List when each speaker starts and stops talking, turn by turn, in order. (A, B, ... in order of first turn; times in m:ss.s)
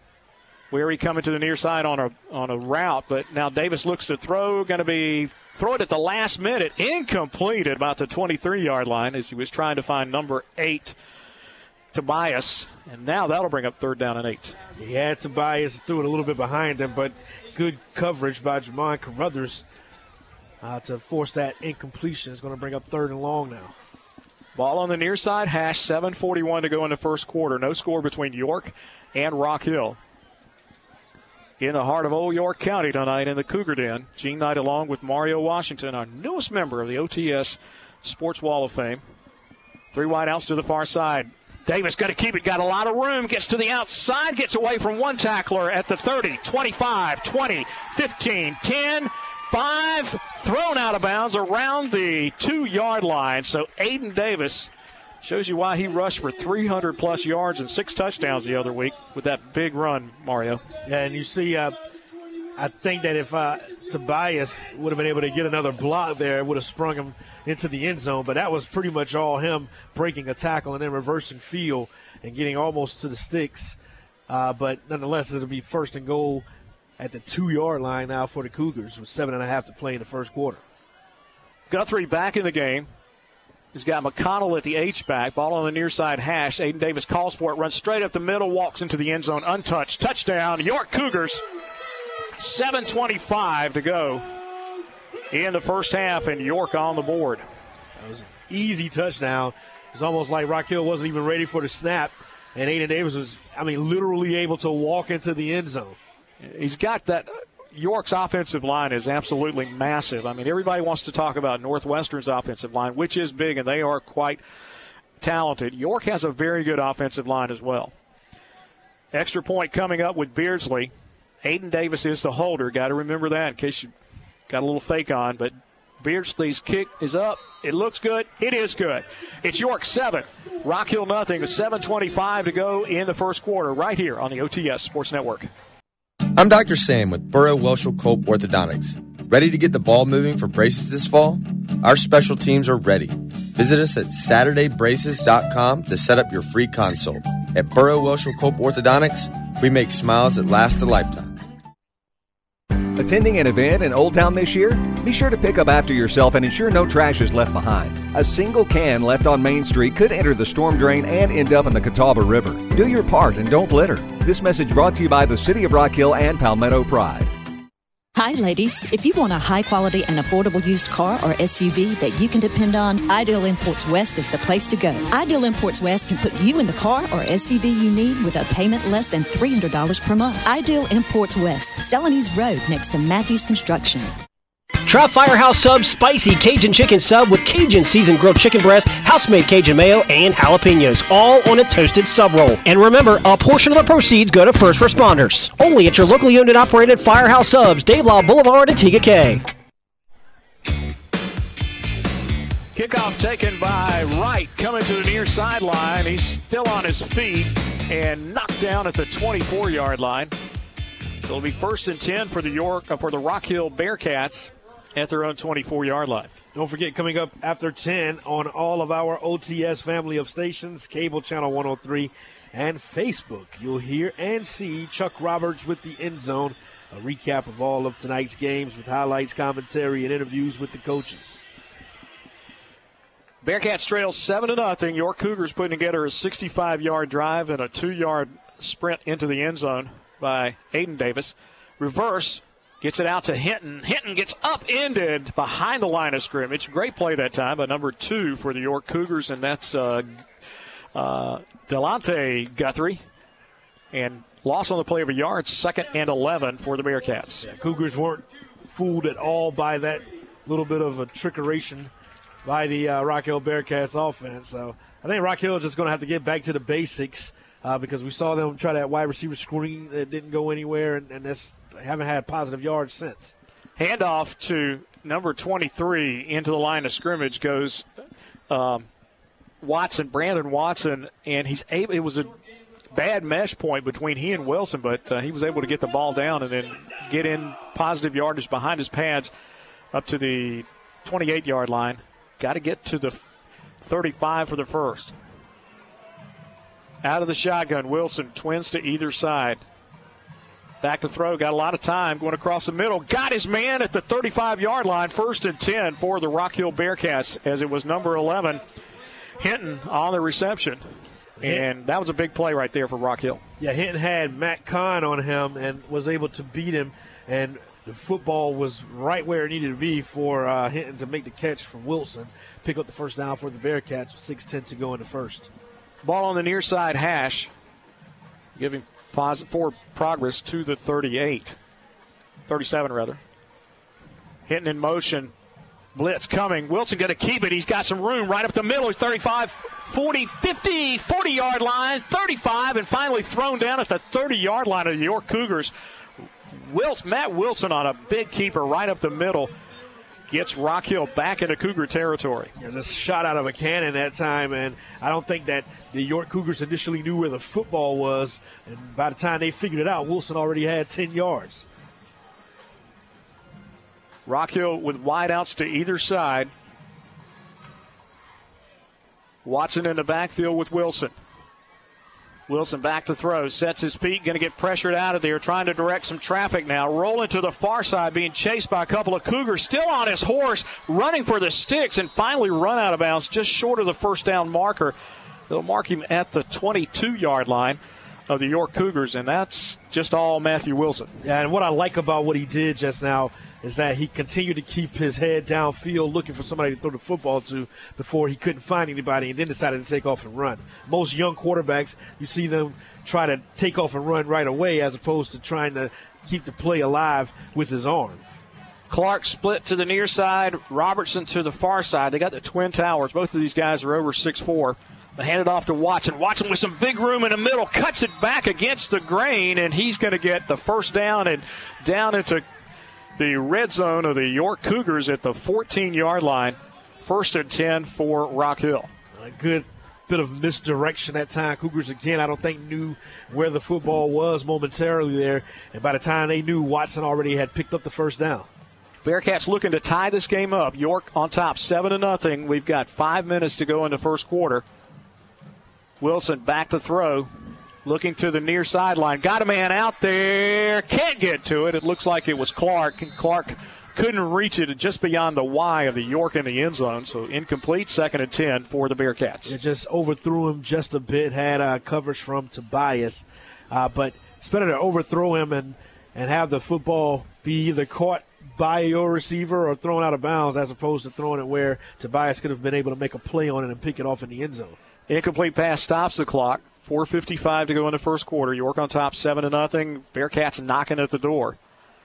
0:00.7-0:11.0 A
0:11.9-0:14.6 A
0:14.8-0:19.6 B
0:20.6-0:23.8 B
0:24.6-0:30.0 A
0:31.6-0:39.0 A
0:39.9-0:54.7 A
0:55.2-1:00.6 A
1:00.8-1:01.8 B
1:02.6-1:13.8 B
1:14.3-1:16.5 B
1:17.0-1:20.6 B
1:21.7-1:22.9 A
1:23.7-1:31.4 A
1:32.4-1:34.3 A
1:35.3-1:37.5 A
1:38.0-1:46.0 B
1:46.4-1:54.4 A
1:55.2-1:57.9 A
1:59.1-2:00.9 A
2:01.4-2:03.9 A
2:04.5-2:15.5 A
2:16.4-2:31.4 C
2:33.0-2:47.3 D
2:48.2-3:04.1 E
3:04.9-3:19.4 F
3:22.7-3:30.3 A
3:31.2-3:36.4 A
3:36.5-3:51.4 B
3:53.4-4:10.1 A
4:10.9-4:13.0 A
4:13.9-4:17.5 A
4:17.4-4:21.9 B
4:22.4-4:33.4 B
4:33.8-4:37.8 A
4:38.5-4:38.9 A
4:39.6-4:42.3 A
4:42.9-4:49.3 A
4:49.9-4:53.3 A
4:53.8-4:55.1 A
4:57.0-4:59.6 A
5:00.8-5:08.6 A
5:09.4-5:10.8 A
5:11.4-5:11.7 B
5:11.4-5:13.4 A
5:13.6-5:25.5 B
5:26.0-5:27.5 A
5:28.6-5:31.6 A
5:32.5-5:33.2 A
5:34.5-5:35.3 A
5:36.0-5:45.7 A
5:46.5-5:49.5 A
5:50.3-5:52.5 A
5:52.6-6:01.6 B
6:04.3-6:06.5 A
6:09.4-6:11.2 A
6:12.5-6:25.0 A
6:25.5-6:31.2 A
6:31.2-6:48.2 B
6:48.9-7:02.4 A
7:03.2-7:08.9 A
7:09.1-7:18.5 B
7:19.0-7:24.6 A
7:26.0-7:27.3 A
7:27.8-7:39.6 A
7:39.5-7:54.8 B
7:55.1-8:01.6 A